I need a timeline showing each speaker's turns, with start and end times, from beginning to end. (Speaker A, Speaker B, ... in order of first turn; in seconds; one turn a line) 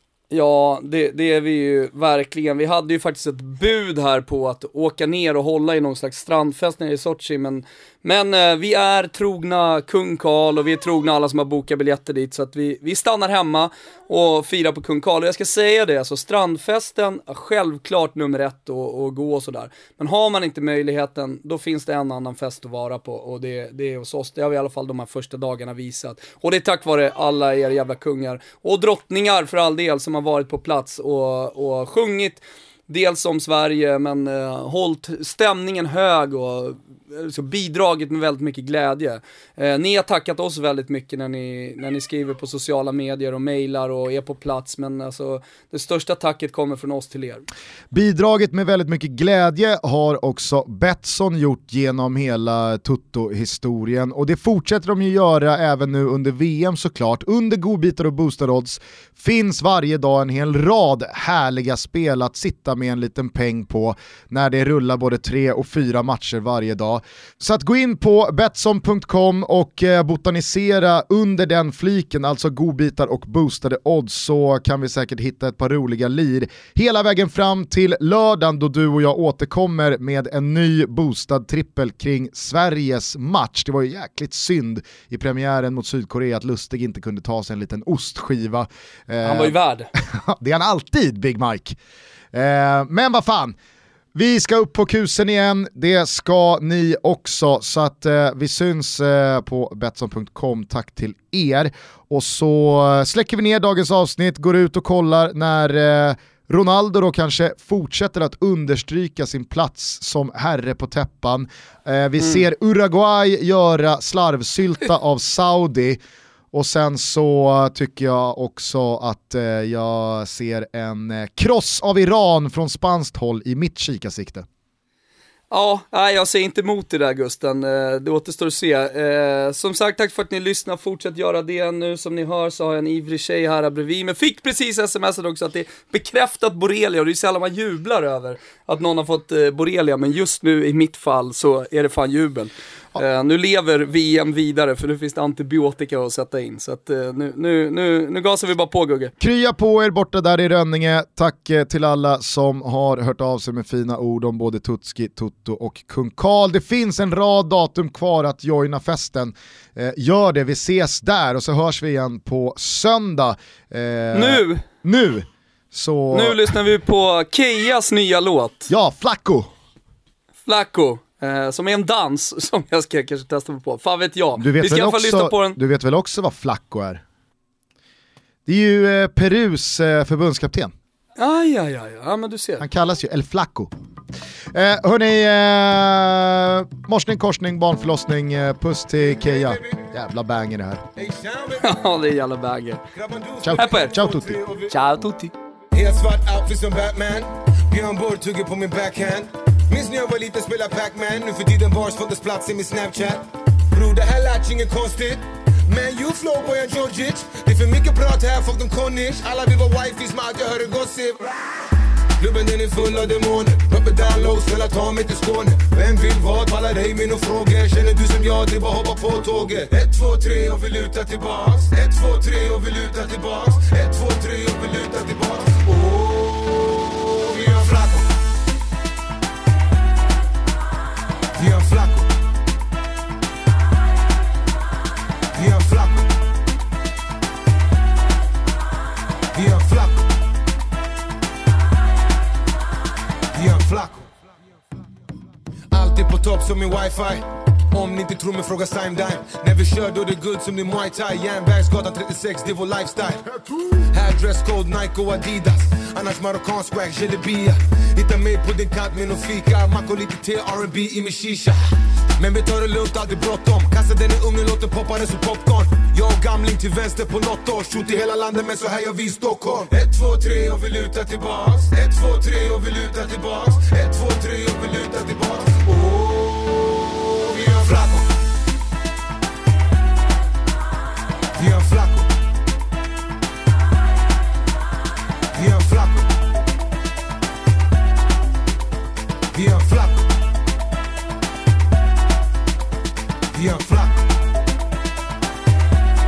Speaker A: 0.3-47.5
Speaker B: 47.9-91.8
Speaker A: 89.2-89.9
Speaker B: 92.3-93.5
Speaker B: 94.1-116.0
Speaker B: 116.5-124.5
Speaker A: 125.5-149.1
Speaker B: 149.2-166.5
Speaker A: 164.1-164.6
Speaker A: 166.1-168.7
Speaker B: 168.7-169.5
Speaker A: 170.4-175.6
Speaker B: 174.4-177.0
Speaker B: 178.5-180.7
Speaker A: 181.2-182.7
Speaker B: 182.6-183.7
Speaker B: 184.5-190.8
Speaker C: 189.1-189.9
Speaker C: 190.9-191.8
Speaker A: 191.6-192.8
Speaker C: 192.9-194.8
Speaker B: 193.4-194.4
Speaker A: 193.6-193.9
Speaker A: 194.7-195.3
Speaker C: 195.7-211.3
Speaker C: 212.2-228.1
Speaker C: 231.3-232.1
Speaker C: 235.3-236.2
Speaker C: 239.3-240.2
Speaker C: 243.3-244.1
Speaker C: 245.7-278.1
Speaker C: 281.3-282.2
Speaker C: 285.3-286.2
Speaker C: 289.3-290.2
Speaker C: 293.3-294.1